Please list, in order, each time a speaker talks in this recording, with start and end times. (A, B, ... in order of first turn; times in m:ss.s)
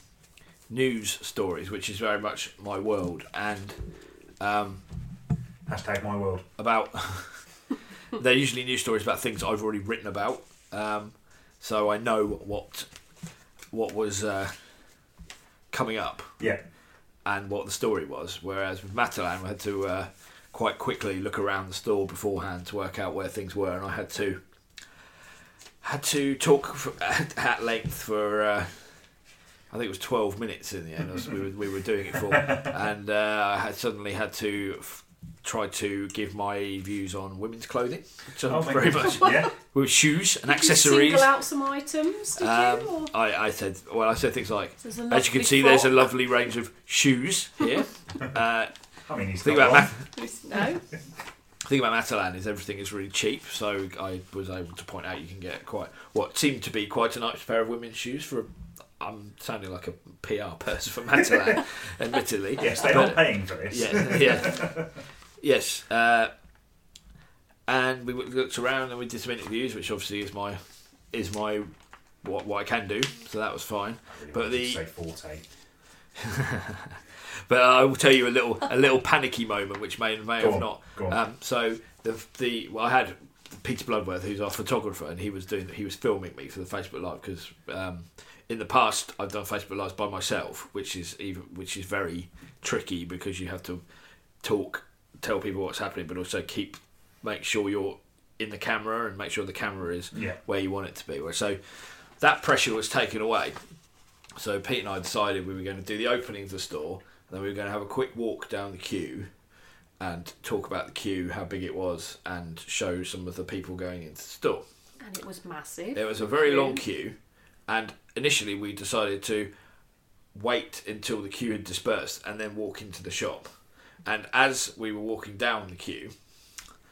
0:00.7-0:03.8 A
0:04.4-0:04.8 A
0:05.6-0:06.4 B
0:06.6-0:07.4 A
0:08.1-0:12.9 A
0:13.7-0:14.6 A
0:15.7-0:16.3 A
0:17.2-0:24.4 A
0:25.8-0:29.0 A
0:29.7-0:41.3 A
0:38.5-0:39.5 B
0:40.4-0:43.1 C
0:42.4-0:48.7 A
0:44.8-0:46.1 C
0:49.0-0:49.9 B
0:49.4-0:50.0 A
0:50.1-0:50.8 C
0:51.6-1:04.8 A
1:02.6-1:04.9 B
1:05.4-1:06.3 A
1:07.7-1:11.7 A
1:12.2-1:14.8 A
1:14.1-1:15.4 B
1:16.2-1:33.8 A
1:20.4-1:21.2 B
1:34.4-1:43.6 A
1:40.1-1:40.4 B
1:44.4-1:49.3 A
1:50.0-1:54.6 A
1:55.0-1:56.8 C
1:55.9-1:57.2 A
1:57.7-1:59.5 A
2:00.3-2:03.5 A
2:04.0-2:06.1 A